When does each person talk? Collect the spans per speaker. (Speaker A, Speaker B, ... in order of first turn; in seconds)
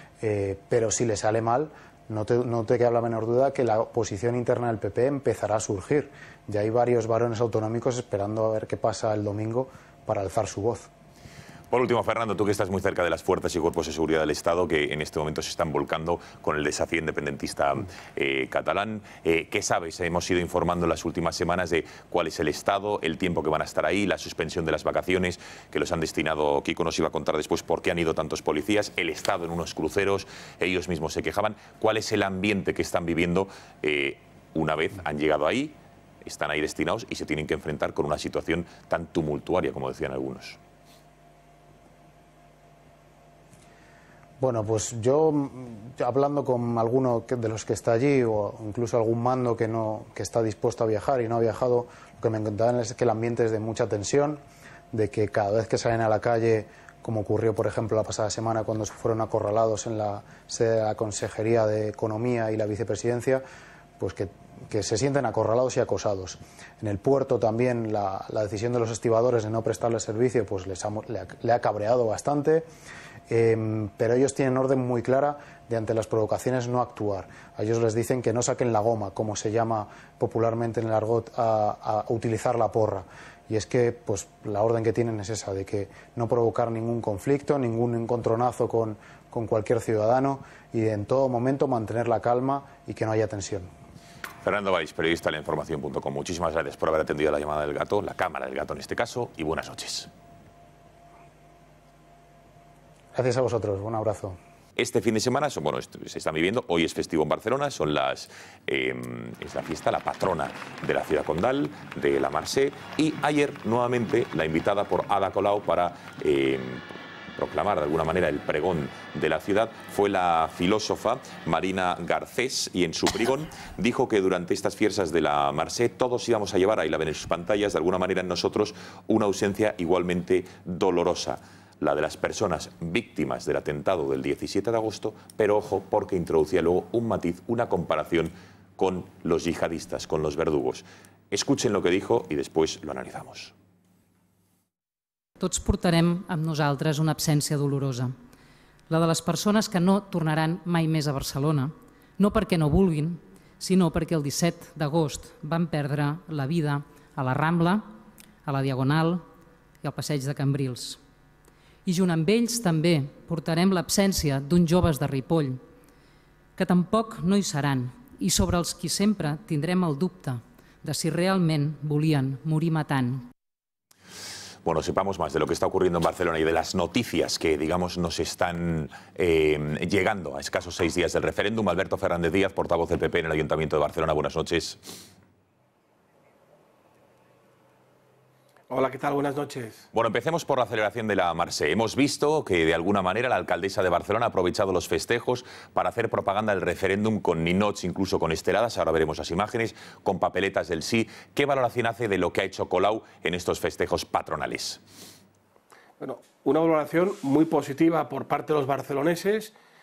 Speaker A: 0.2-10.9, 44.4-63.4, 64.0-72.6, 73.3-93.7, 103.1-104.4
Speaker B: 11.7-40.6, 94.4-100.1, 104.8-116.8, 117.3-143.5, 174.6-184.9, 189.9-204.8
Speaker C: 145.4-148.2, 148.9-157.9, 158.4-159.2, 159.8-161.0, 161.8-165.6, 166.6-173.3
Speaker D: 188.7-189.8, 206.0-209.5